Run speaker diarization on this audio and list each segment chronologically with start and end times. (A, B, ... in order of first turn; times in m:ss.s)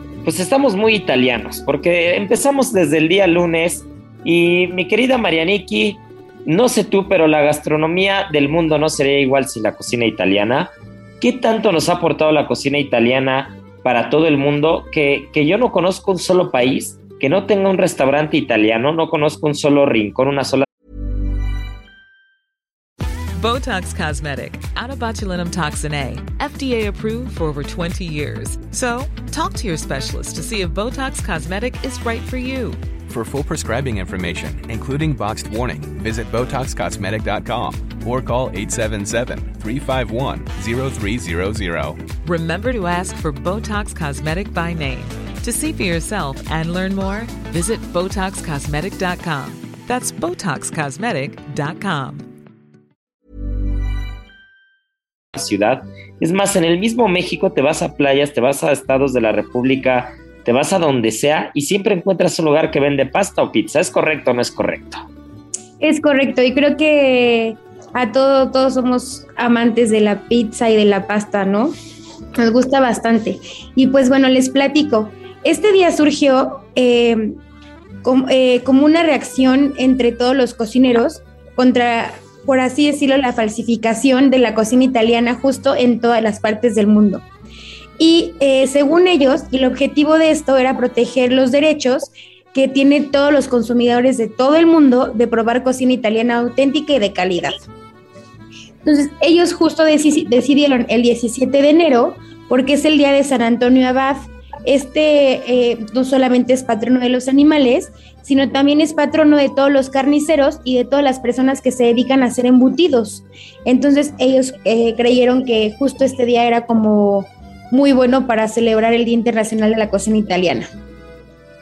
0:00.2-0:20.6 A
0:23.4-0:32.8 B
0:33.1-0:42.0 C
0:42.2-0:52.3 B
0:55.3-1:05.0 A
1:05.8-1:11.7 D
1:12.4-1:17.4 D
1:18.0-1:27.2 D
1:28.0-1:37.7 D
1:38.8-2:00.7 D